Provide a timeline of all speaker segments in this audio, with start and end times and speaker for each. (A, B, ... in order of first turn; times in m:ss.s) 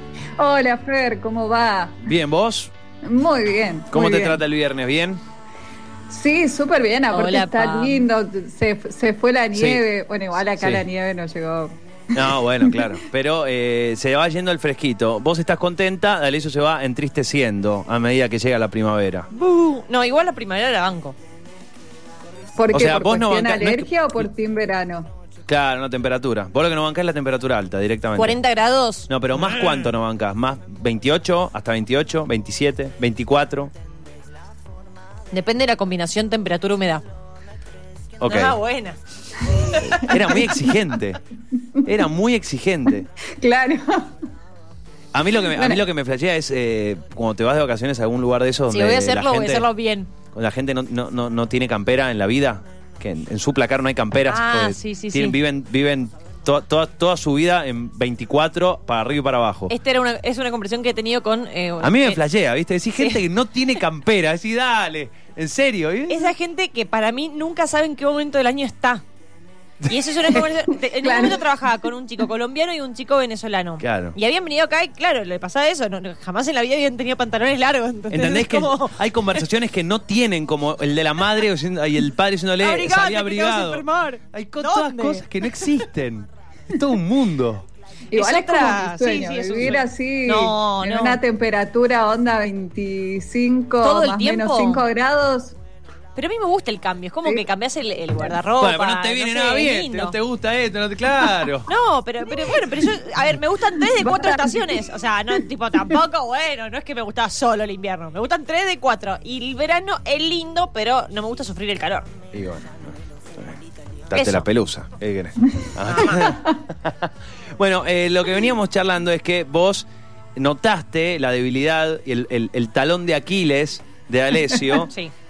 0:00.4-0:02.0 A
0:02.0-0:02.7 B
0:03.0-0:04.4 A
0:03.9-0:05.2 B
0:06.1-0:12.9 A
0:07.1-0:08.0 C
0:09.5-0:09.8 B
0:10.6-0:10.8 B
0:12.1-0:19.3 B
0:19.3-0:21.1 C
0:22.6-0:25.1 A
0:22.7-0:24.2 B
0:25.5-0:28.4 B
0:28.2-0:29.8 C
0:29.1-0:33.7 B
0:35.3-0:37.0 C
0:38.2-0:38.6 B
0:38.2-0:39.0 C
0:39.5-0:40.1 C
0:40.0-0:41.2 B
0:40.0-0:40.3 A
0:41.8-0:43.1 B
0:43.2-0:44.2 A
0:45.1-0:49.6 B
0:45.4-0:45.8 A
0:48.7-0:50.1 C
0:50.3-0:59.7 B
0:54.3-0:55.4 C
0:59.7-1:02.2 C
1:01.8-1:06.3 B
1:06.1-1:09.0 C
1:09.9-1:19.4 C
1:10.3-1:11.4 A
1:13.8-1:14.2 B
1:18.1-1:27.6 B
1:22.6-1:25.7 C
1:28.1-1:35.6 A
1:28.1-1:31.2 C
1:33.8-1:34.8 C
1:36.2-1:40.2 C
1:38.6-1:41.7 B
1:41.6-1:52.1 C
1:43.9-1:44.8 A
1:52.3-1:53.6 B
1:54.1-2:04.9 B
1:54.1-1:54.5 C
1:55.9-1:56.3 C
2:04.8-2:05.1 C